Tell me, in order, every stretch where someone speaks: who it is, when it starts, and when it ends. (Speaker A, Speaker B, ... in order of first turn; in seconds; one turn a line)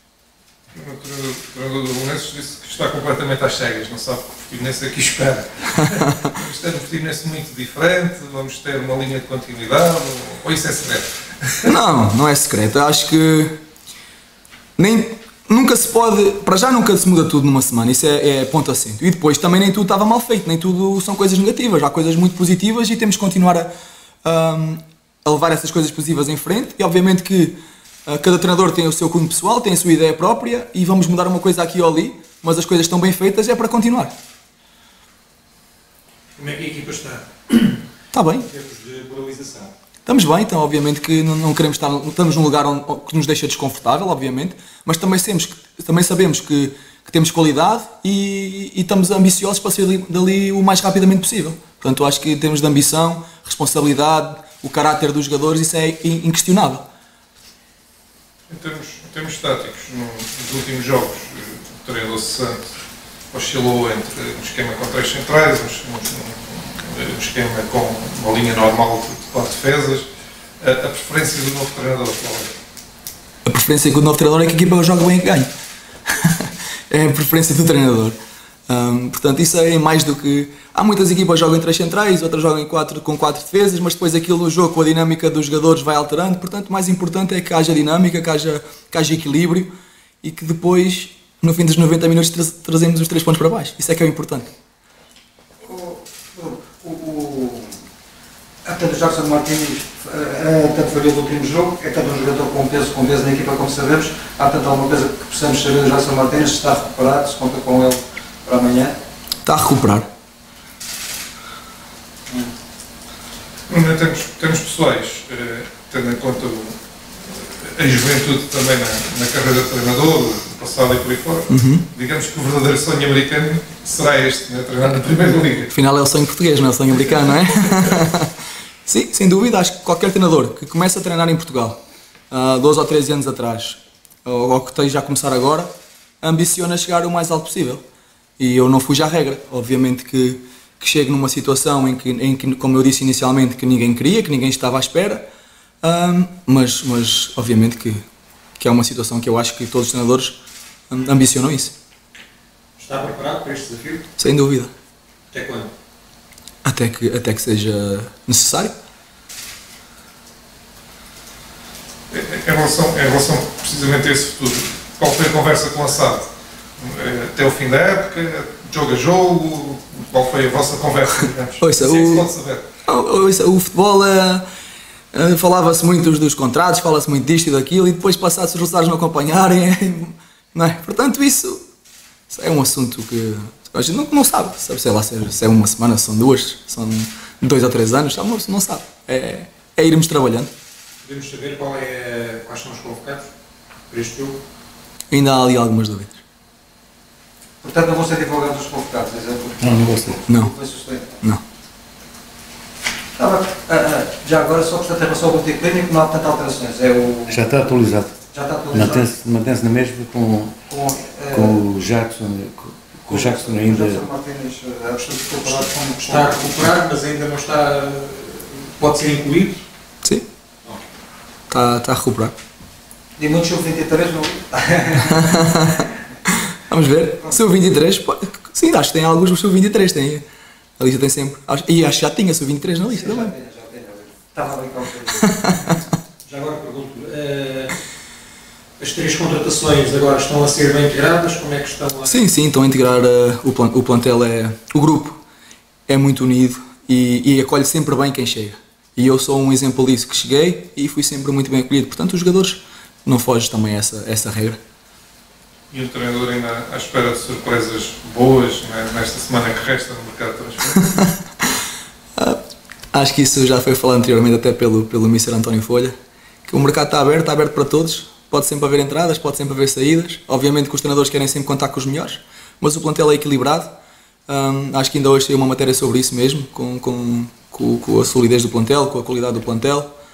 Speaker A: 0.7-11.7
Speaker B: 11.6-13.6
Speaker B: 14.8-23.7
Speaker B: 24.2-34.1
Speaker C: 36.4-37.8
Speaker B: 38.1-38.5
Speaker C: 38.5-39.7
Speaker B: 40.0-56.8
Speaker A: 58.5-62.6
Speaker A: 63.3-70.0
Speaker A: 70.6-72.5
Speaker B: 73.5-75.5
Speaker B: 76.1-78.2
Speaker B: 78.7-94.5
Speaker D: 95.6-97.8
Speaker D: 98.6-108.9
Speaker B: 109.4-110.1
Speaker A: 113.7-125.7
Speaker B: 121.5-121.8
Speaker B: 125.7-128.3
Speaker B: 128.8-131.8
Speaker B: 132.3-137.8
Speaker B: 138.4-145.2
Speaker B: 145.8-148.0
Speaker B: 148.6-151.7
Speaker C: 152.8-154.0
Speaker B: 154.2-154.7
Speaker C: 155.3-155.7
Speaker B: 156.6-158.7
Speaker A: 162.1-166.3
Speaker A: 166.8-172.7
Speaker B: 171.6-172.3
Speaker B: 172.8-174.4
Speaker B: 175.1-181.6
Speaker B: 182.3-190.5
Speaker C: 191.0-193.3
Speaker C: 193.9-194.4
Speaker B: 195.1-196.2
Speaker D: 197.6-201.2
Speaker E: 199.6-200.2
Speaker B: 200.3-200.5
Speaker D: 203.2-207.6
Speaker E: 207.3-208.2
Speaker D: 208.3-209.1
Speaker E: 208.7-210.6
Speaker D: 210.7-211.6
Speaker E: 211.3-214.0
Speaker D: 213.1-216.5
Speaker C: 216.0-219.6
Speaker B: 221.5-222.3
Speaker D: 223.2-225.6
Speaker B: 225.2-225.8
Speaker B: 226.5-230.2
Speaker B: 230.8-233.3
Speaker D: 232.9-235.8
Speaker B: 235.2-235.9
Speaker C: 236.2-237.7
Speaker C: 238.8-242.2
Speaker B: 242.0-245.2
Speaker B: 245.9-254.6
Speaker A: 255.7-261.0
Speaker B: 262.9-265.9
Speaker B: 266.4-273.7
Speaker B: 274.3-279.9